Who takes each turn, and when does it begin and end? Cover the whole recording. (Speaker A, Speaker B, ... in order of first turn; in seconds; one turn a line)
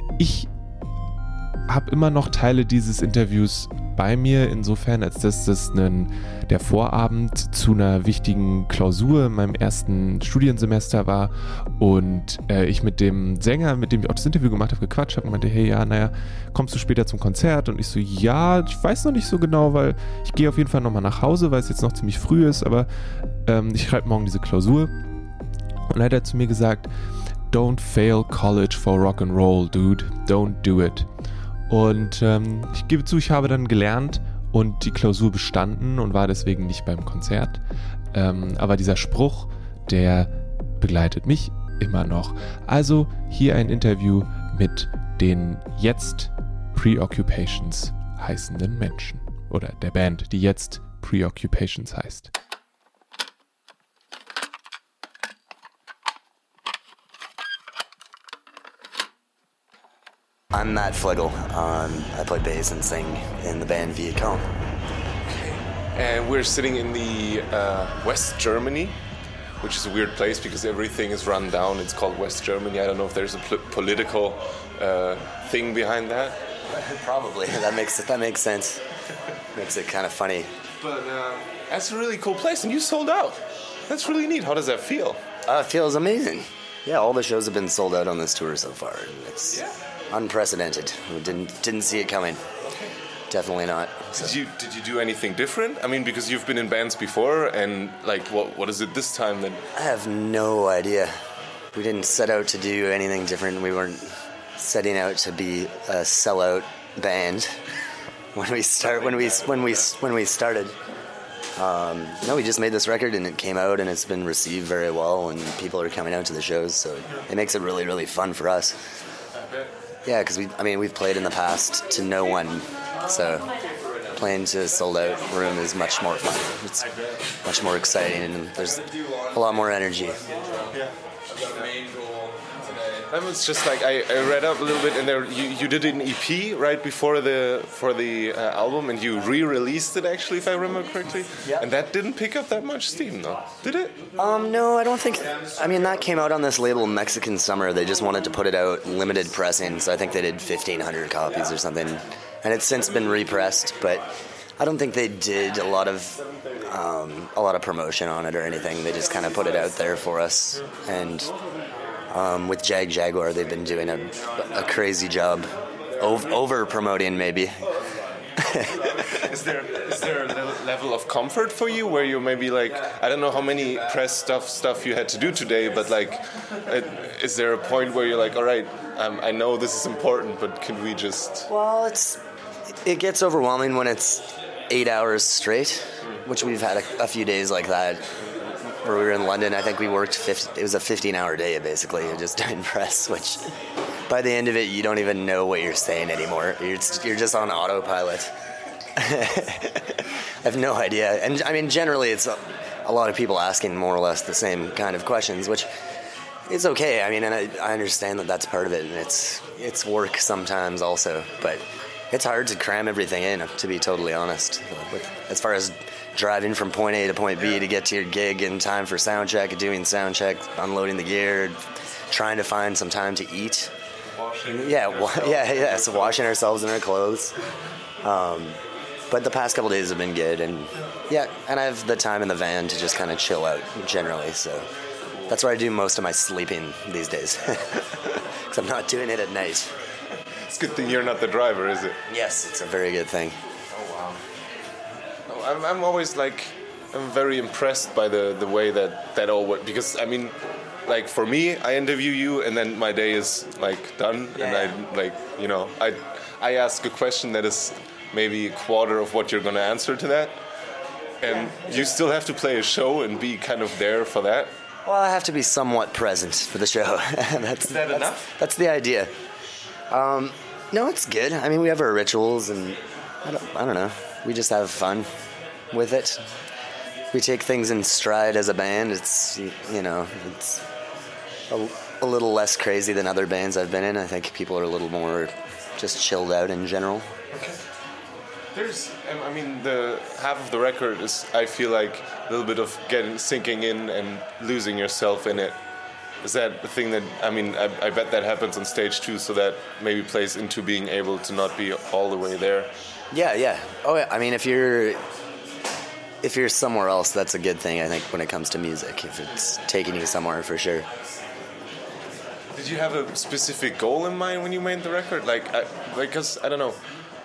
Speaker A: 0.2-0.5
Speaker A: 1.7-22.9
Speaker A: 23.4-24.9
Speaker A: 25.9-26.9
Speaker A: 27.5-31.1
Speaker A: 31.7-37.6
Speaker A: 38.1-52.3
Speaker B: 60.5-64.4
Speaker C: 65.3-69.0
Speaker C: 69.6-76.4
Speaker B: 76.7-78.8
Speaker B: 79.5-80.5
Speaker C: 80.8-85.2
Speaker B: 85.5-92.4
Speaker C: 89.5-89.8
Speaker C: 92.6-92.9
Speaker B: 93.3-94.4
Speaker C: 94.1-99.6
Speaker B: 99.7-101.1
Speaker B: 101.7-107.5
Speaker B: 108.3-110.8
Speaker C: 108.8-109.8
Speaker B: 111.6-118.8
Speaker B: 120.0-123.5
Speaker B: 124.1-130.4
Speaker C: 130.7-144.0
Speaker B: 144.2-154.1
Speaker B: 154.6-161.3
Speaker B: 162.1-167.7
Speaker B: 168.4-169.0
Speaker C: 169.0-181.5
Speaker B: 181.5-182.2
Speaker B: 182.7-193.4
Speaker B: 194.1-198.3
Speaker B: 198.9-205.7
Speaker B: 206.5-223.7
Speaker C: 224.1-226.2
Speaker B: 224.4-227.3
Speaker B: 228.0-234.7
Speaker C: 235.1-235.4
Speaker B: 235.3-239.7
Speaker C: 240.4-242.0
Speaker B: 242.1-243.4
Speaker C: 243.7-244.2
Speaker C: 245.3-260.4
Speaker B: 254.3-254.8
Speaker C: 261.2-264.5
Speaker B: 261.3-261.9
Speaker B: 264.8-269.1
Speaker C: 267.6-268.3
Speaker B: 269.9-275.1
Speaker B: 275.7-276.2
Speaker B: 277.1-280.6
Speaker B: 281.5-287.1
Speaker C: 287.3-287.6
Speaker C: 288.5-295.6
Speaker C: 296.2-302.7
Speaker B: 303.1-305.0
Speaker B: 306.2-310.9
Speaker C: 312.5-316.8